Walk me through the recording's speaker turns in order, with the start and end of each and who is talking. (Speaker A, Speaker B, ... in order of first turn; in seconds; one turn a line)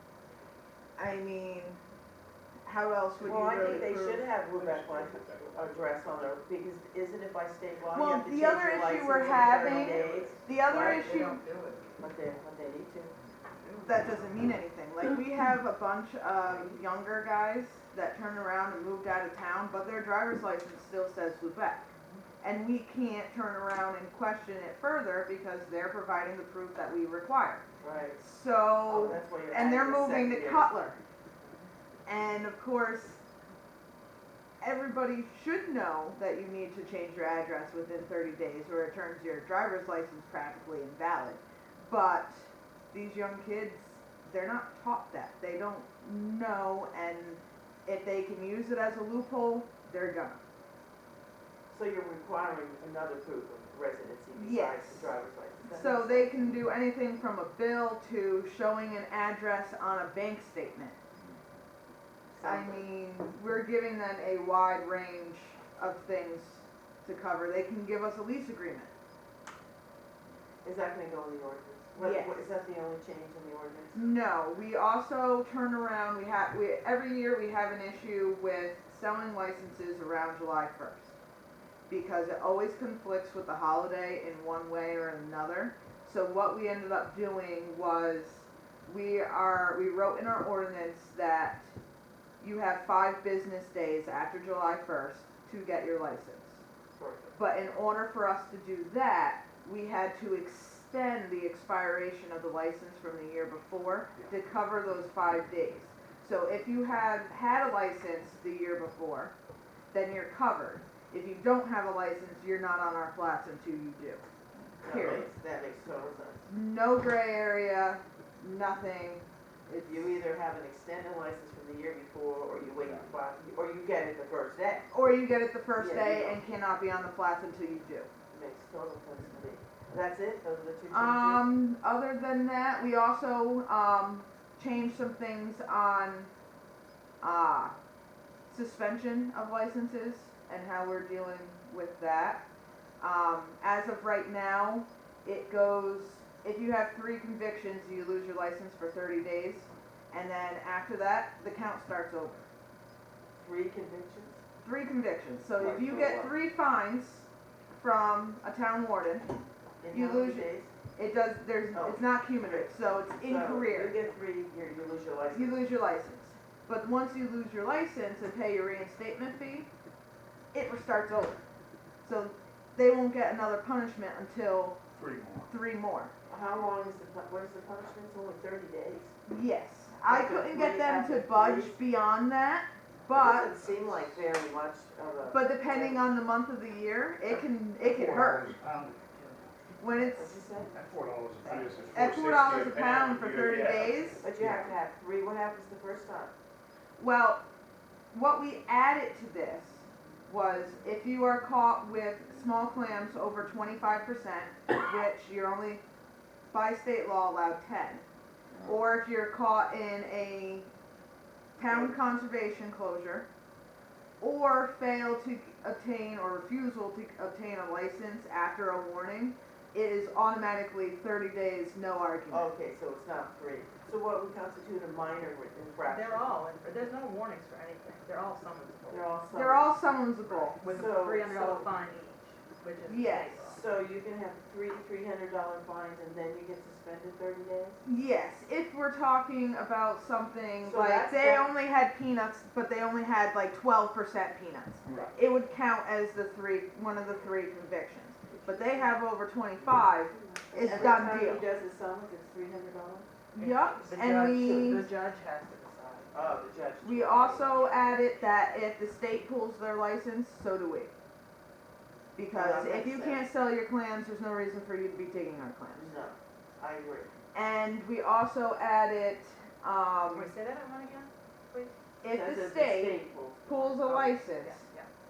Speaker A: 1.0-1.8
Speaker A: 2.6-4.3
Speaker B: 3.2-11.1
Speaker C: 4.4-6.0
Speaker A: 7.9-11.4
Speaker C: 10.0-10.5
Speaker D: 10.6-11.9
Speaker B: 12.0-13.1
Speaker D: 13.6-14.1
Speaker A: 13.8-27.6
Speaker B: 27.8-28.2
Speaker A: 28.2-31.0
Speaker B: 28.9-30.8
Speaker A: 32.0-33.2
Speaker A: 34.6-50.4
Speaker B: 51.7-56.6
Speaker A: 54.3-55.1
Speaker A: 55.7-61.0
Speaker B: 62.3-62.9
Speaker A: 62.4-68.9
Speaker B: 70.6-74.0
Speaker A: 72.0-72.4
Speaker A: 73.9-81.1
Speaker A: 81.9-91.7
Speaker A: 92.4-96.6
Speaker B: 97.0-97.3
Speaker A: 97.3-109.3
Speaker A: 109.9-114.2
Speaker B: 114.8-116.5
Speaker A: 114.8-115.2
Speaker A: 116.5-120.2
Speaker B: 119.8-124.9
Speaker A: 124.9-128.1
Speaker B: 125.8-126.4
Speaker B: 128.3-131.4
Speaker A: 130.9-136.3
Speaker A: 137.2-137.8
Speaker A: 138.5-142.4
Speaker A: 143.0-152.5
Speaker B: 153.4-154.4
Speaker A: 154.6-159.3
Speaker B: 155.6-156.3
Speaker B: 159.8-160.7
Speaker A: 159.9-164.0
Speaker B: 161.7-165.6
Speaker A: 165.3-169.7
Speaker A: 170.5-171.4
Speaker A: 172.0-174.8
Speaker C: 174.9-175.5
Speaker A: 175.5-176.1
Speaker B: 176.3-179.1
Speaker A: 179.3-183.5
Speaker B: 180.0-181.8
Speaker B: 183.1-186.1
Speaker A: 185.3-188.5
Speaker C: 187.8-190.0
Speaker A: 189.8-190.4
Speaker B: 190.2-190.7
Speaker C: 190.7-194.7
Speaker A: 191.9-194.2
Speaker B: 194.2-196.3
Speaker A: 197.0-197.4
Speaker A: 198.1-205.8
Speaker A: 206.5-208.0
Speaker A: 208.6-210.7
Speaker A: 211.6-213.2
Speaker B: 211.6-211.9
Speaker A: 214.2-222.5
Speaker B: 222.3-226.4
Speaker D: 225.8-229.1
Speaker B: 228.9-229.8
Speaker A: 229.3-230.6
Speaker D: 230.5-233.6
Speaker B: 230.6-231.7
Speaker A: 232.9-233.4
Speaker B: 233.4-237.8
Speaker A: 237.8-251.5
Speaker B: 240.6-241.5
Speaker C: 244.8-245.2
Speaker B: 248.3-249.0
Speaker B: 250.2-253.1
Speaker D: 250.6-251.0
Speaker A: 253.3-254.9
Speaker D: 253.3-256.2
Speaker B: 256.1-257.8
Speaker A: 256.8-260.9
Speaker A: 262.1-265.9
Speaker B: 262.3-263.2
Speaker B: 265.7-267.1
Speaker A: 267.3-270.3
Speaker D: 270.1-271.7
Speaker A: 272.0-274.7
Speaker B: 272.1-274.2
Speaker D: 274.4-274.9